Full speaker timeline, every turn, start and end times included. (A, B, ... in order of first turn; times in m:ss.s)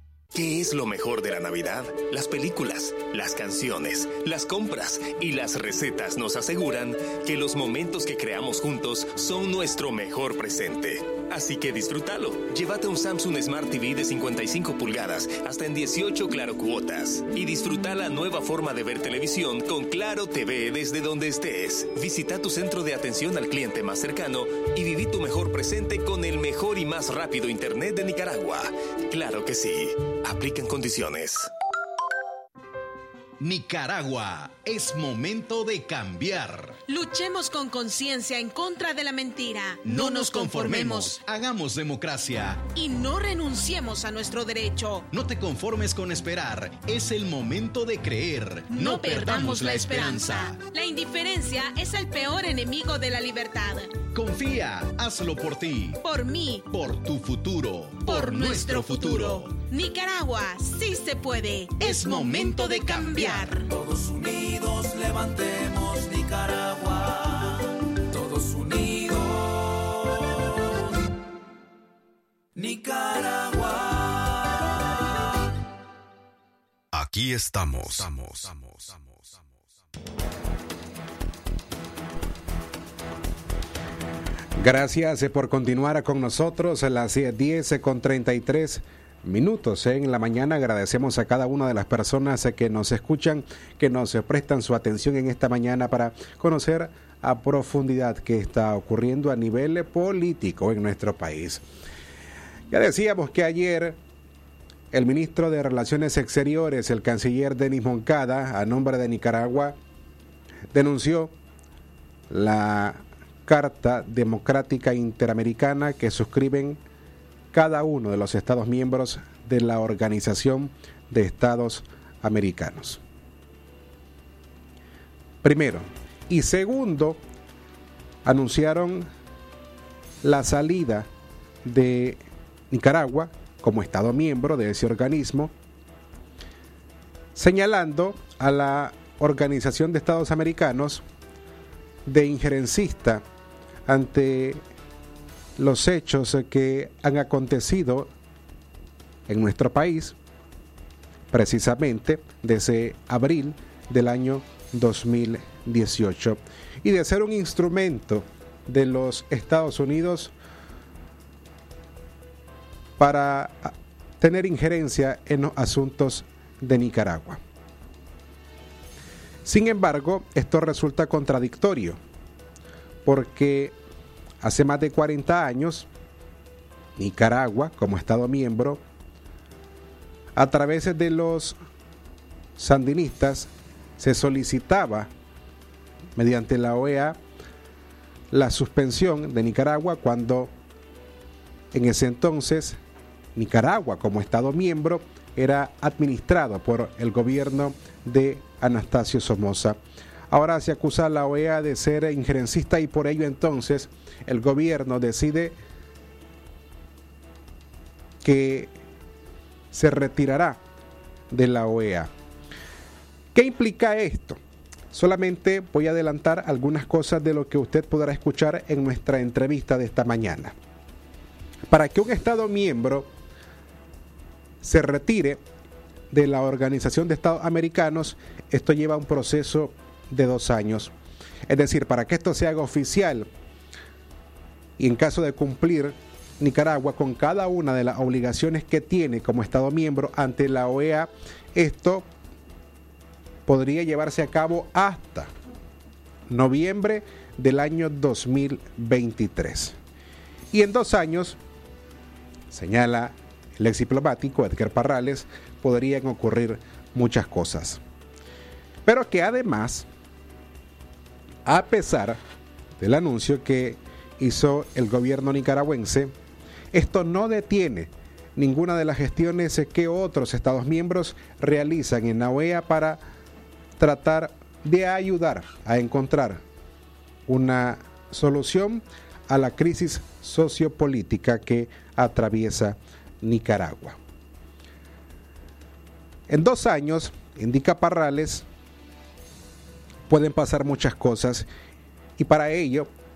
0:00.3-0:31.5 A
0:33.4-0:36.8 B
0:36.9-0:41.2 C
0:39.8-0:42.7 B
0:42.7-0:45.1 C
0:45.1-0:50.6 B
0:48.7-0:54.0 C
0:54.1-0:56.0 B
0:56.0-0:56.7 C
0:56.7-0:59.6 B
0:58.0-1:03.7 C
1:01.8-1:03.3 B
1:03.6-1:10.1 D
1:12.6-1:14.8 D
1:16.9-1:19.9 E
1:24.6-1:41.6 F
1:42.7-1:44.0 F
1:44.9-1:49.8 F
1:50.7-1:51.4 F
1:52.3-1:56.8 F
1:57.5-2:03.0 F
2:05.4-2:07.2 F
2:08.2-2:09.1 F
2:10.2-2:11.1 F
2:11.6-2:15.5 F
2:17.4-2:21.0 F
2:22.1-2:23.2 F
2:23.9-2:24.6 F
2:25.6-2:28.1 F
2:29.3-2:30.2 F
2:31.3-2:40.3 F
2:43.0-2:47.4 F
2:49.4-2:52.0 F
2:53.0-2:53.8 F
2:54.4-2:55.9 F
2:57.0-2:58.8 F
3:00.4-3:01.6 F
3:02.6-3:05.1 F
3:06.2-3:07.2 F
3:08.3-3:10.5 F
3:11.7-3:12.8 F
3:13.4-3:19.8 F
3:20.3-3:25.6 F
3:28.2-3:28.7 F
3:29.7-3:30.6 F
3:31.3-3:32.1 F
3:33.3-3:34.4 F
3:34.9-3:40.6 F
3:41.7-3:43.1 F
3:44.6-3:45.4 F
3:46.1-3:50.9 F
3:51.5-3:53.3 F
3:54.8-4:02.1 F
4:03.5-4:05.3 F
4:06.3-4:09.8 F
4:10.5-4:11.4 F
4:12.5-4:17.8 F
4:18.8-4:19.9 F
4:21.5-4:22.2 F
4:22.8-4:26.1 F
4:26.7-4:33.0 F
4:33.8-4:36.4 F
4:37.3-4:44.0 F
4:46.3-4:48.5 F
4:50.1-4:51.5 F
4:52.2-4:52.9 F